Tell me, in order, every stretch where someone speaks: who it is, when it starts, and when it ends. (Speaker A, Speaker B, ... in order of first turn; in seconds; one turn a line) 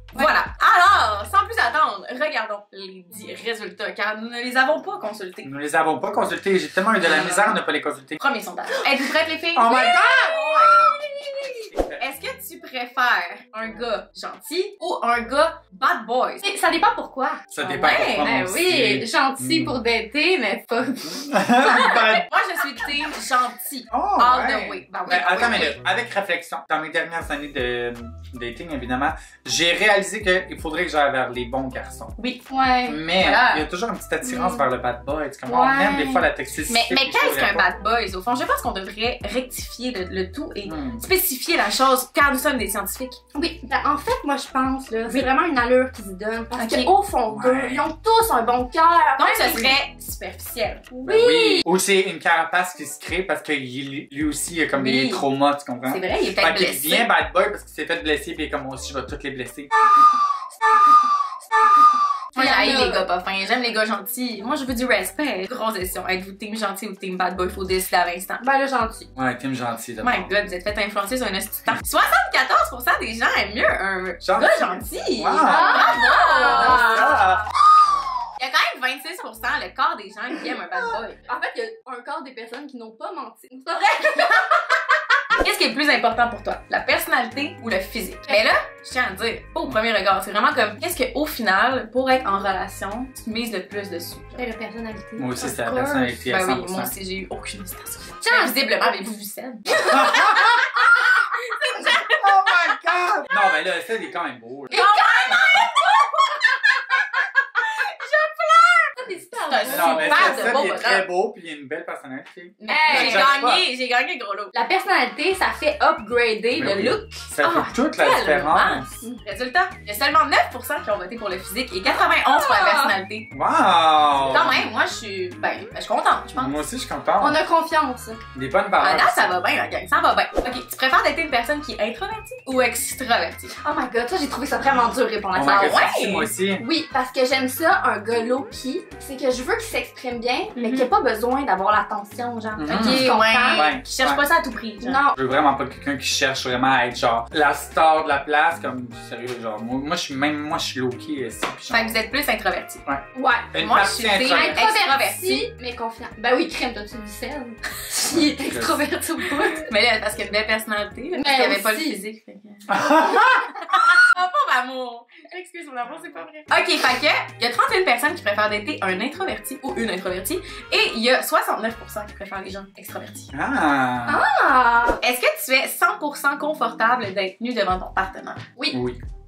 Speaker A: 0.1-5.5
Speaker B: 5.4-8.2
Speaker A: 7.0-7.6
Speaker A: 8.2-11.4
Speaker C: 9.6-10.9
Speaker B: 11.6-12.0
Speaker A: 12.0-16.4
Speaker C: 16.4-22.2
Speaker B: 17.5-19.8
Speaker A: 17.6-18.3
Speaker B: 20.9-22.2
Speaker A: 21.6-25.8
Speaker B: 23.9-32.1
Speaker A: 32.2-32.4
Speaker C: 32.5-33.0
Speaker B: 32.9-37.7
Speaker A: 33.1-33.7
Speaker C: 34.2-34.7
Speaker C: 35.5-36.3
Speaker A: 36.7-43.2
Speaker B: 40.6-41.0
Speaker C: 43.4-49.7
Speaker A: 46.5-47.2
Speaker B: 47.3-47.9
Speaker A: 49.2-50.9
Speaker C: 50.9-51.7
Speaker B: 51.0-59.7
Speaker A: 54.7-55.3
Speaker A: 55.8-57.1
Speaker A: 62.3-68.4
Speaker C: 62.4-63.0
Speaker C: 68.4-69.1
Speaker B: 69.2-70.3
Speaker A: 70.0-77.2
Speaker B: 74.2-77.5
Speaker C: 75.4-77.4
Speaker A: 78.4-81.2
Speaker C: 81.2-84.5
Speaker A: 83.9-84.3
Speaker A: 85.4-94.5
Speaker C: 94.4-96.2
Speaker B: 95.2-96.9
Speaker A: 96.2-102.5
Speaker C: 98.2-98.9
Speaker B: 99.8-100.1
Speaker C: 100.0-100.4
Speaker B: 102.2-104.8
Speaker C: 104.7-105.6
Speaker A: 104.7-106.7
Speaker A: 107.6-111.0
Speaker C: 109.0-110.6
Speaker B: 109.7-113.6
Speaker A: 112.6-114.5
Speaker C: 112.7-113.4
Speaker C: 114.5-117.2
Speaker B: 116.6-118.9
Speaker A: 117.4-123.3
Speaker C: 122.3-123.0
Speaker B: 123.3-124.7
Speaker A: 124.2-126.6
Speaker B: 126.3-127.4
Speaker C: 127.2-128.2
Speaker B: 128.3-129.4
Speaker A: 128.8-133.6
Speaker C: 133.6-135.8
Speaker B: 135.3-136.7
Speaker A: 135.4-136.3
Speaker C: 136.6-143.7
Speaker A: 140.6-140.9
Speaker B: 142.6-144.2
Speaker A: 142.7-145.0
Speaker C: 144.8-145.2
Speaker B: 145.2-152.0
Speaker A: 151.7-152.8
Speaker B: 152.9-154.7
Speaker C: 153.1-159.7
Speaker A: 153.6-155.5
Speaker B: 158.1-158.8
Speaker A: 159.5-173.3
Speaker C: 161.1-162.0
Speaker B: 162.7-163.4
Speaker B: 165.9-166.2
Speaker B: 173.3-174.2
Speaker C: 174.1-175.0
Speaker A: 175.0-178.5
Speaker B: 178.7-179.0